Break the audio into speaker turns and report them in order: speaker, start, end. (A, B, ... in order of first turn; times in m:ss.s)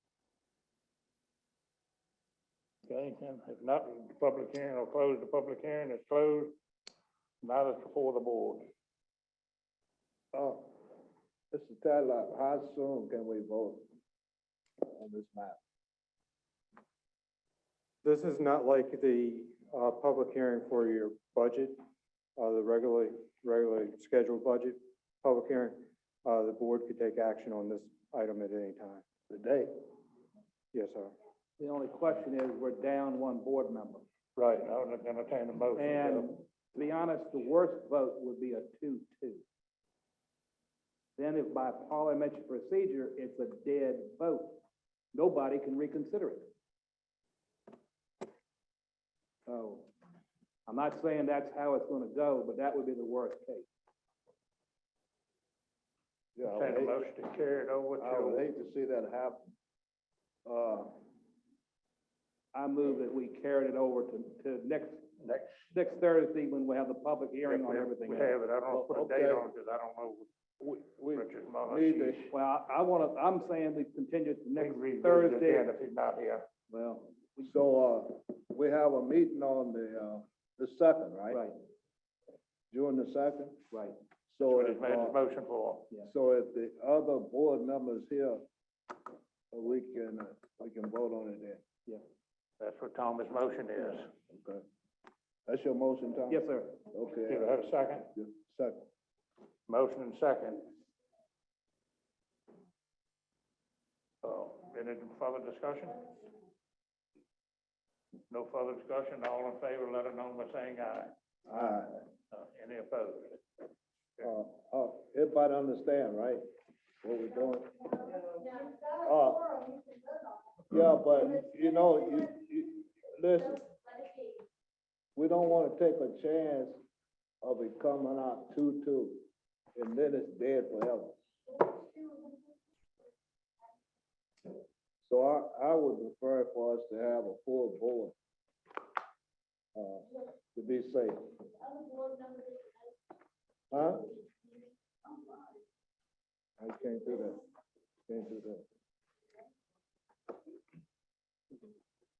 0:02.9-0:06.6 A
0:07.4-0:08.7 A
0:10.3-0:10.7 B
0:11.5-0:13.9 B
0:14.9-0:15.6 B
0:18.0-0:21.8 C
0:22.4-0:29.0 C
0:29.3-0:29.7 B
0:30.7-0:31.1 C
0:31.6-0:34.0 D
0:34.4-0:36.3 A
0:35.8-0:39.4 D
0:41.2-0:44.6 D
0:45.1-0:46.5 D
0:49.4-0:49.9 D
0:50.7-0:53.7 D
0:56.3-0:57.0 B
0:56.5-0:58.4 A
0:58.0-0:59.4 B
1:00.4-1:00.9 B
1:02.5-1:05.0 D
1:05.2-1:05.7 A
1:05.7-1:08.4 D
1:07.4-1:10.3 A
1:08.7-1:09.5 B
1:10.6-1:12.3 B
1:11.1-1:12.3 A
1:12.3-1:15.7 D
1:14.6-1:16.5 A
1:16.7-1:17.5 D
1:17.4-1:21.4 B
1:21.3-1:21.6 D
1:22.7-1:23.6 B
1:23.7-1:24.0 D
1:24.3-1:25.2 B
1:24.4-1:25.9 A
1:26.0-1:28.4 B
1:29.5-1:31.6 B
1:32.6-1:34.1 A
1:34.3-1:34.6 B
1:35.5-1:37.6 B
1:36.3-1:36.8 D
1:37.3-1:38.1 A
1:38.1-1:38.8 B
1:39.7-1:40.7 A
1:44.2-1:46.0 A
1:48.3-1:51.1 A
1:51.5-1:52.0 B
1:52.3-1:53.4 A
1:54.2-1:56.4 B
1:57.0-1:58.1 B
1:58.9-1:59.7 B
2:00.7-2:03.7 B
2:05.2-2:06.8 B
2:07.4-2:11.2 B
2:15.0-2:18.1 B
2:19.7-2:21.4 B
2:23.7-2:24.2 B
2:26.6-2:27.4 B
2:28.1-2:28.6 B